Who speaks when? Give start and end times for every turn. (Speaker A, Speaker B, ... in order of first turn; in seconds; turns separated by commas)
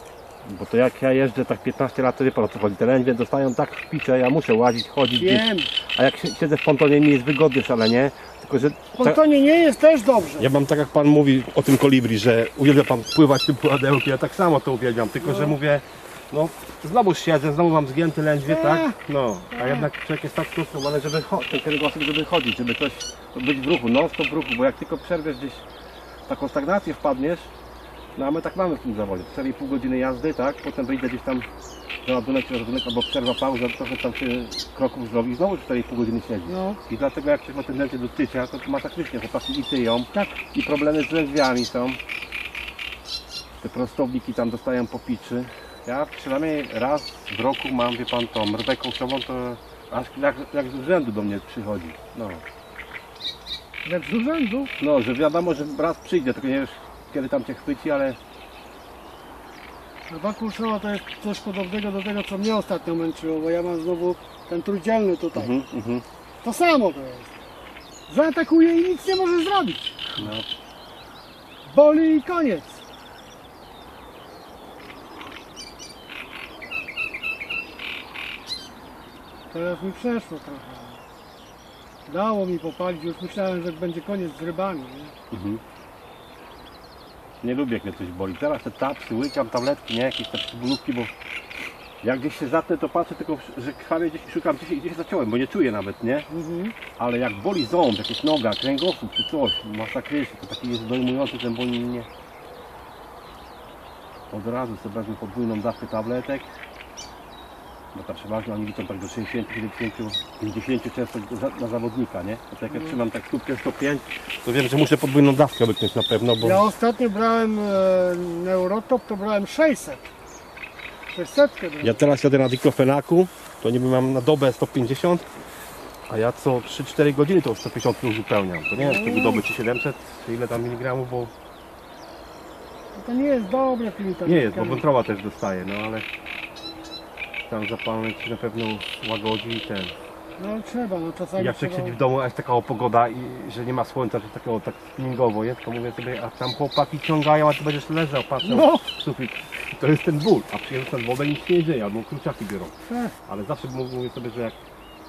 Speaker A: 0.4-9.2, Speaker B: 5.1-5.7, Speaker B: 8.9-10.5, Speaker A: 10.4-25.6, Speaker B: 15.2-15.6, Speaker B: 18.5-19.0, Speaker B: 19.5-19.9, Speaker A: 26.3-27.5, Speaker A: 28.1-31.5, Speaker A: 32.0-42.0, Speaker B: 36.5-36.8, Speaker B: 40.1-40.4, Speaker A: 43.6-52.4, Speaker B: 53.8-54.7, Speaker A: 54.8-58.2, Speaker B: 60.1-65.6, Speaker A: 65.3-66.0, Speaker B: 66.4-67.4, Speaker B: 68.1-70.0, Speaker A: 70.2-70.5, Speaker B: 71.7-72.8, Speaker B: 79.5-81.0, Speaker B: 82.1-85.1, Speaker A: 85.3-85.6, Speaker A: 87.4-91.1, Speaker A: 92.0-96.3, Speaker B: 96.3-96.8, Speaker A: 96.9-102.1, Speaker A: 104.3-106.5, Speaker A: 107.9-116.7, Speaker B: 112.7-113.0, Speaker B: 116.4-120.1, Speaker B: 121.1-122.0, Speaker A: 121.8-125.3, Speaker A: 126.1-131.3, Speaker B: 128.8-129.4, Speaker B: 132.9-134.8, Speaker A: 134.2-136.1, Speaker A: 137.5-139.9, Speaker B: 140.4-142.0, Speaker A: 141.4-152.7, Speaker B: 148.4-148.9, Speaker B: 152.8-153.2, Speaker A: 153.3-154.6